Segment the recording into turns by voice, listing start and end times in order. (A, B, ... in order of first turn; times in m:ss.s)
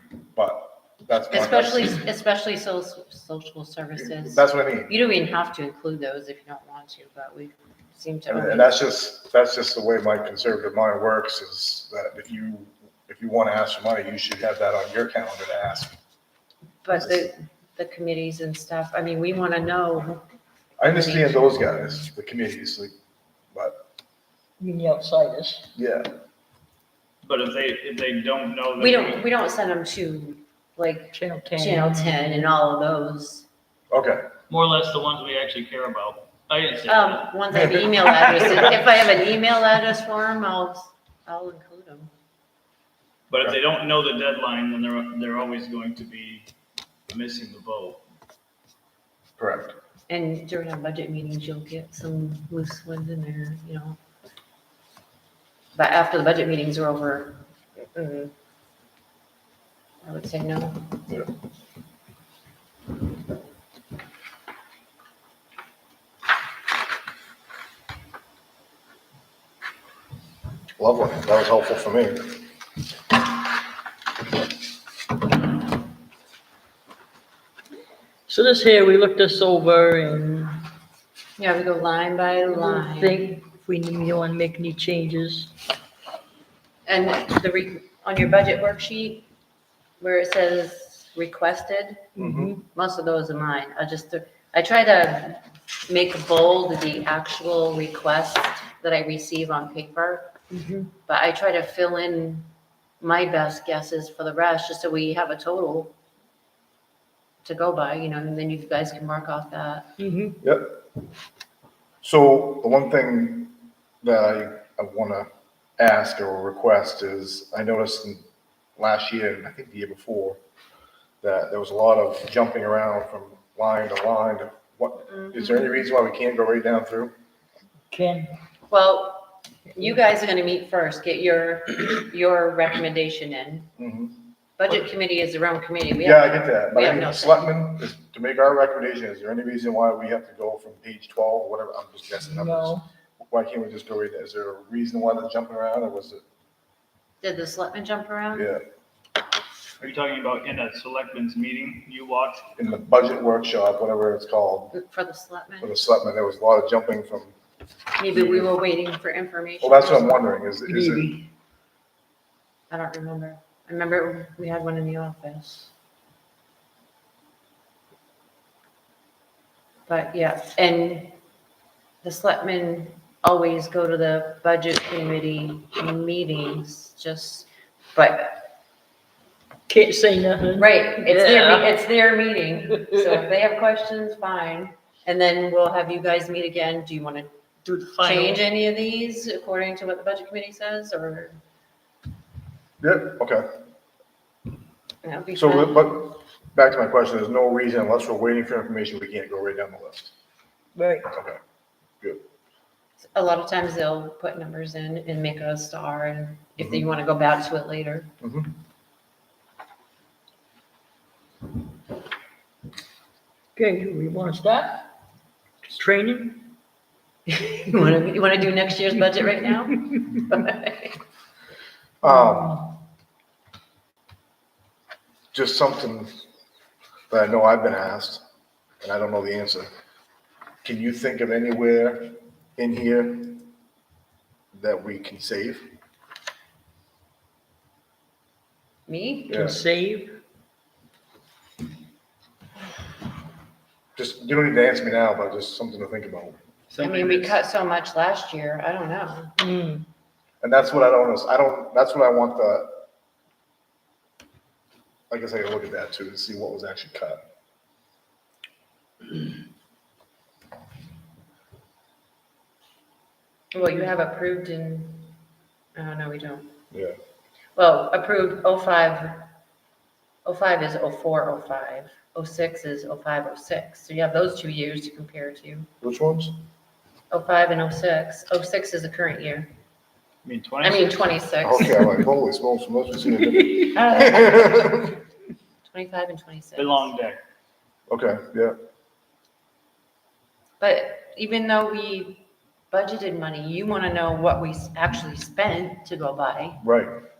0:00.3-0:02.0 A
0:01.3-0:08.8 B
0:04.0-0:04.9 A
0:08.3-0:15.9 A
0:16.8-0:20.2 B
0:20.8-0:22.9 A
0:20.8-0:21.6 B
0:24.6-0:25.7 C
0:25.7-0:26.1 A
0:27.2-0:29.2 D
0:28.8-0:33.4 B
0:31.1-0:32.4 C
0:33.9-0:34.3 A
0:34.5-0:38.8 D
0:36.9-0:42.1 B
0:37.5-0:37.9 A
0:43.3-0:46.5 D
0:47.1-0:48.0 D
0:49.4-0:49.7 A
0:50.1-0:54.0 B
0:55.7-0:58.3 B
1:00.0-1:01.0 B
1:10.8-1:12.4 A
1:18.3-1:20.6 C
1:21.4-1:23.2 B
1:22.5-1:25.5 C
1:26.9-1:29.3 B
1:30.0-1:32.1 B
1:32.2-1:32.6 C
1:32.2-1:32.5 A
1:32.7-1:42.5 B
1:40.5-1:40.9 C
1:43.0-1:45.9 B
1:47.4-1:49.9 B
1:50.0-1:50.4 C
1:50.4-1:50.8 A
1:52.0-1:55.3 A
1:55.8-1:58.2 A
1:58.8-2:00.4 A
2:01.2-2:07.1 A
2:05.0-2:05.8 B
2:07.9-2:08.3 C
2:08.7-2:13.7 B
2:13.8-2:14.2 A
2:14.6-2:17.5 B
2:16.0-2:26.2 A
2:22.2-2:22.8 C
2:27.2-2:28.5 B
2:28.3-2:28.6 A
2:29.8-2:32.5 D
2:32.6-2:34.7 A
2:34.7-2:35.7 B
2:35.6-2:37.4 A
2:38.0-2:40.3 B
2:38.1-2:38.5 A
2:39.6-2:41.2 A
2:40.7-2:41.3 C
2:42.7-2:45.7 B
2:49.9-2:51.2 B
2:52.0-2:58.5 B
2:59.7-3:01.8 C
3:00.6-3:07.3 B
3:02.7-3:03.2 C
3:07.6-3:08.4 C
3:08.0-3:11.3 B
3:12.8-3:13.4 A
3:15.0-3:16.0 B
3:15.3-3:20.1 A
3:20.8-3:21.1 C
3:21.1-3:21.4 A
3:23.0-3:28.1 B
3:26.6-3:26.9 A
3:28.2-3:28.5 A
3:33.6-3:34.9 C
3:35.6-3:36.5 C
3:37.4-3:41.0 B
3:42.0-3:42.7 A
3:42.0-3:42.4 C
3:45.3-3:46.1 A
3:47.1-3:48.2 A
3:48.8-3:49.7 A
3:50.6-3:53.5 A
3:54.5-3:55.6 A
3:58.9-3:59.4 B
3:59.3-3:59.6 A
3:59.3-4:00.2 C
4:04.0-4:06.4 A
4:06.7-4:07.4 D
4:06.8-4:09.3 B
4:09.4-4:09.8 C
4:10.4-4:12.7 A
4:15.1-4:17.2 A
4:23.5-4:25.2 B
4:25.7-4:26.6 B
4:27.6-4:29.3 B
4:30.2-4:35.7 B
4:35.8-4:36.3 A
4:37.1-4:39.5 B
4:40.2-4:41.1 D
4:40.6-4:41.8 B
4:41.4-4:45.0 A
4:43.9-4:44.4 B
4:45.7-4:46.9 B
4:46.6-4:47.2 D
4:47.9-4:48.6 A
4:50.6-4:56.6 B
4:56.6-4:57.0 A